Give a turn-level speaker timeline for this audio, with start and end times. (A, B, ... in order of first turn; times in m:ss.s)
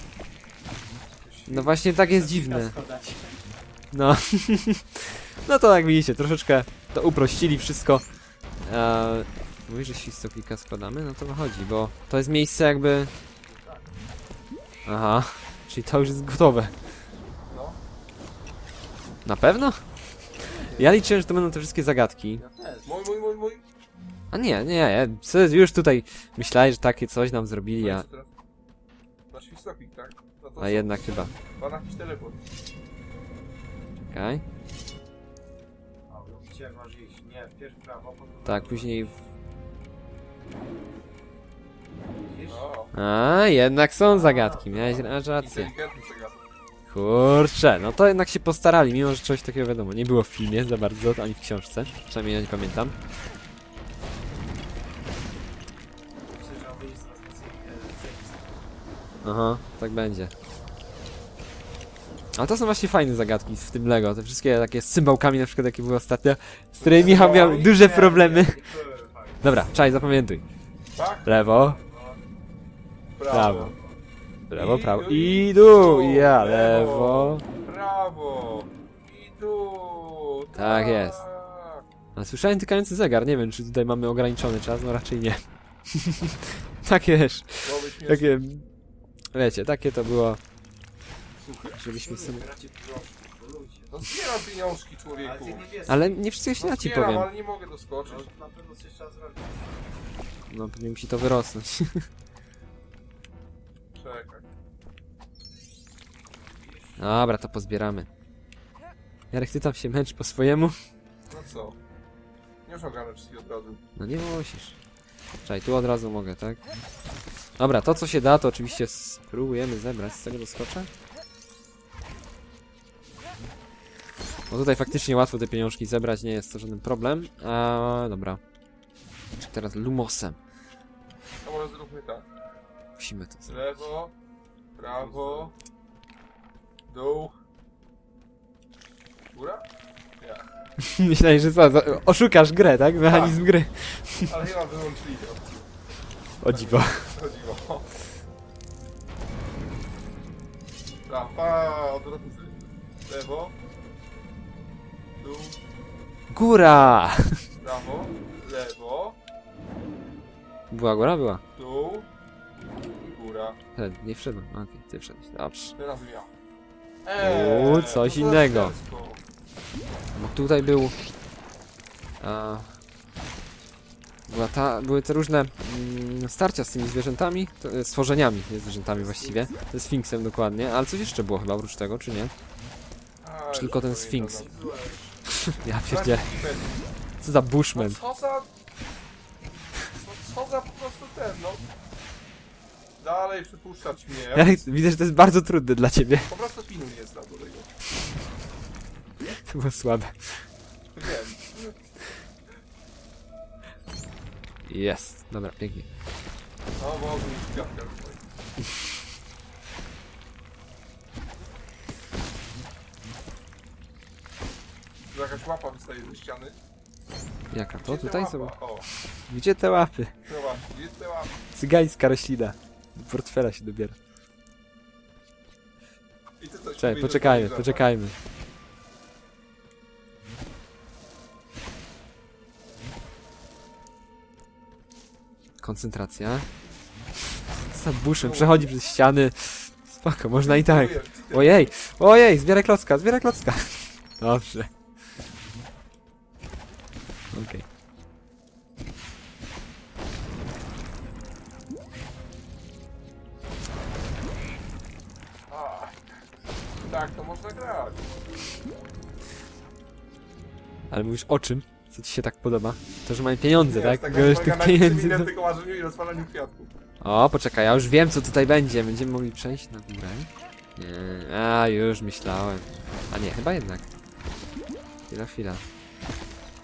0:01.2-0:03.5 A
0:01.5-0:02.7 B
0:03.9-0:08.0 B
0:08.6-0:13.1 B
0:13.4-0:13.9 A
0:14.9-0:16.7 B
0:17.5-0:17.8 C
0:19.2-0:19.8 B
0:20.5-0:21.0 A
0:20.8-0:22.4 B
0:22.4-0:23.0 A
0:22.8-0:23.6 C
0:24.3-0:28.1 B
0:27.8-0:28.3 C
0:29.3-0:32.4 C
0:30.6-0:31.3 B
0:34.1-0:34.4 B
0:36.1-0:39.2 A
0:38.4-0:39.1 B
0:42.2-0:42.7 A
0:42.5-0:42.9 C
0:42.9-0:45.7 B
0:44.0-0:45.1 A
0:45.4-0:46.4 C
0:46.9-0:53.0 B
0:56.3-0:58.7 A
0:59.2-1:00.3 B
1:02.4-1:08.6 B
1:06.8-1:07.7 C
1:06.9-1:09.6 A
1:09.4-1:10.4 B
1:10.9-1:11.3 C
1:11.2-1:11.8 B
1:11.5-1:12.2 A
1:13.2-1:13.8 C
1:13.3-1:13.7 B
1:13.4-1:14.0 A
1:14.5-1:17.4 B
1:14.5-1:21.8 C
1:20.6-1:21.2 B
1:22.2-1:28.7 B
1:27.6-1:28.3 C
1:29.3-1:30.4 B
1:31.4-1:31.8 C
1:31.8-1:32.4 B
1:32.0-1:34.0 A
1:33.9-1:35.6 C
1:35.2-1:36.2 A
1:35.9-1:37.3 B
1:36.6-1:38.3 C
1:38.0-1:40.0 A
1:40.5-1:42.1 B
1:43.9-1:44.4 C
1:46.3-1:47.1 A
1:47.0-1:48.1 B
1:49.3-1:50.8 B
1:51.3-1:51.8 C
1:52.7-1:53.8 C
1:54.0-1:54.8 B
1:55.4-1:56.6 B
1:57.6-2:00.9 B
2:04.5-2:08.4 B
2:09.4-2:10.4 B
2:11.4-2:12.2 C
2:13.0-2:13.6 B
2:13.5-2:14.1 C
2:14.8-2:15.5 C
2:14.8-2:15.5 A
2:16.9-2:17.4 C
2:19.3-2:19.6 C
2:20.2-2:20.5 C
2:20.8-2:24.3 B
2:23.0-2:23.4 C
2:24.2-2:25.7 C
2:26.4-2:27.1 B
2:26.4-2:28.0 C
2:31.1-2:33.5 C
2:35.2-2:35.6 C
2:36.3-2:37.5 B
2:37.6-2:39.2 C
2:40.7-2:41.4 B
2:41.6-2:42.1 C
2:43.0-2:43.6 C
2:43.8-2:45.8 B
2:45.8-2:46.3 C
2:47.0-2:49.2 C
2:47.2-2:48.8 B
2:50.2-2:51.0 B
2:52.2-2:52.7 B
2:54.3-3:02.3 B
2:58.9-2:59.5 A
3:03.2-3:04.6 C
3:03.5-3:04.5 B
3:04.3-3:05.2 A
3:05.3-3:06.3 B
3:05.8-3:06.9 C
3:07.2-3:08.0 B
3:07.7-3:08.5 C
3:09.9-3:11.6 C
3:13.0-3:14.6 C
3:14.4-3:16.3 B
3:16.2-3:17.7 C
3:19.4-3:20.5 B
3:21.0-3:21.8 C
3:24.6-3:25.9 B
3:26.8-3:28.2 C
3:35.1-3:36.6 C
3:37.5-3:38.6 B
3:37.8-3:38.9 C
3:39.3-3:40.1 B
3:40.3-3:41.4 C
3:41.6-3:44.0 B
3:46.4-3:47.9 C
3:46.8-3:48.2 B
3:55.6-3:56.5 B
3:57.5-4:04.7 B
3:58.2-3:58.7 C
4:00.4-4:01.7 C
4:07.3-4:07.6 B
4:15.5-4:16.0 C
4:16.8-4:18.0 C
4:20.9-4:25.3 B
4:23.6-4:26.7 C
4:27.0-4:33.9 B
4:35.1-4:35.6 B